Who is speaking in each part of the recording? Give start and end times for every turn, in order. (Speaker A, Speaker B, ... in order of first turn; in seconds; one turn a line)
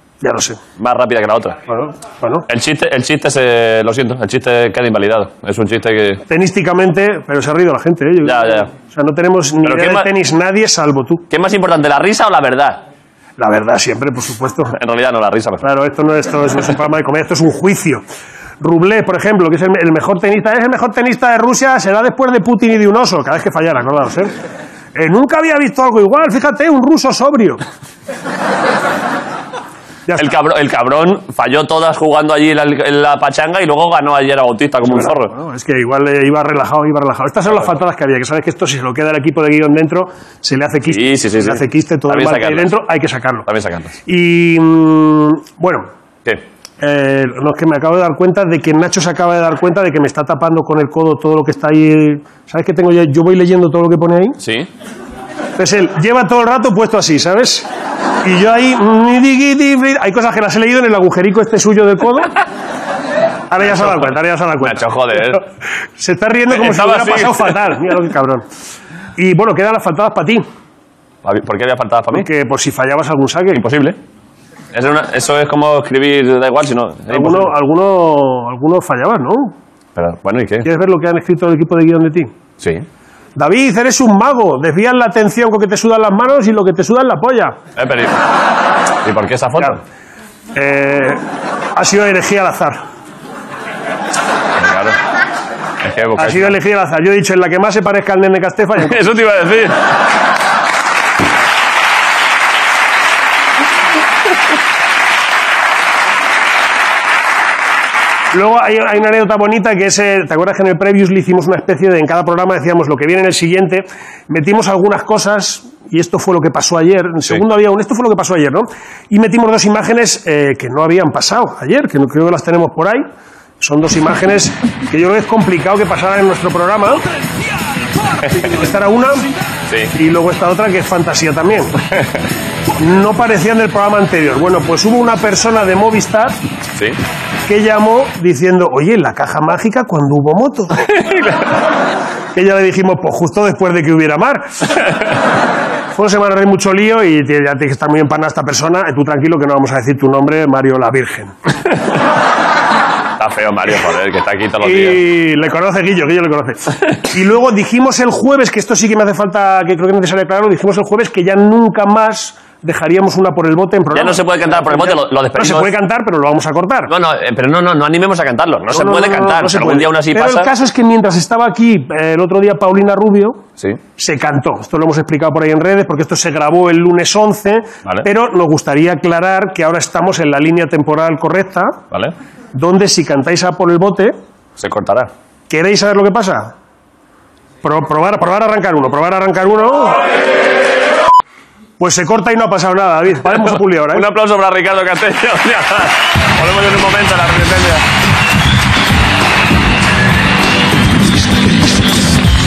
Speaker A: 0.2-0.6
Speaker B: 0.8-1.6
Speaker A: 1.7-2.5
Speaker B: 2.5-6.2
Speaker A: 6.3-11.2
Speaker B: 8.2-8.7
Speaker B: 9.6-10.1
Speaker B: 11.3-12.8
Speaker A: 13.4-14.8
Speaker B: 14.7-15.6
Speaker A: 15.6-18.0
Speaker A: 18.6-24.3
Speaker A: 24.9-27.6
Speaker B: 30.2-35.3
Speaker A: 34.8-43.5
Speaker B: 40.9-42.7
Speaker B: 43.4-43.9
Speaker A: 44.1-45.9
Speaker A: 46.8-54.4
Speaker B: 54.4-54.7
Speaker A: 55.6-57.6
Speaker A: 58.2-62.3
Speaker A: 63.5-65.4
Speaker B: 63.6-65.4
Speaker A: 66.0-68.4
Speaker B: 66.5-67.5
Speaker A: 69.2-70.4
Speaker B: 71.2-72.3
Speaker A: 72.1-73.6
Speaker B: 73.5-74.0
Speaker B: 74.7-77.5
Speaker A: 77.1-79.5
Speaker B: 80.0-80.7
Speaker A: 80.6-82.3
Speaker A: 83.3-87.5
Speaker B: 87.8-88.2
Speaker B: 89.0-89.8
Speaker A: 90.5-91.2
Speaker A: 91.8-92.8
Speaker B: 94.6-95.0
Speaker B: 95.8-96.5
Speaker A: 96.2-99.0
Speaker B: 98.8-99.8
Speaker A: 108.3-123.1
Speaker A: 123.6-127.0
Speaker A: 128.3-129.3
Speaker B: 129.7-129.9
Speaker A: 129.9-131.8
Speaker A: 132.8-136.3
Speaker A: 137.5-140.8
Speaker B: 140.9-141.4
Speaker A: 142.3-144.5
Speaker A: 145.9-151.3
Speaker B: 153.2-155.0
Speaker A: 154.6-166.9
Speaker B: 163.9-165.7
Speaker B: 166.9-170.5
Speaker A: 168.7-173.4
Speaker A: 174.0-181.8
Speaker A: 182.5-184.2
Speaker B: 184.6-185.1
Speaker A: 185.5-186.5
Speaker A: 187.6-190.0
Speaker A: 191.8-194.0
Speaker B: 193.4-197.8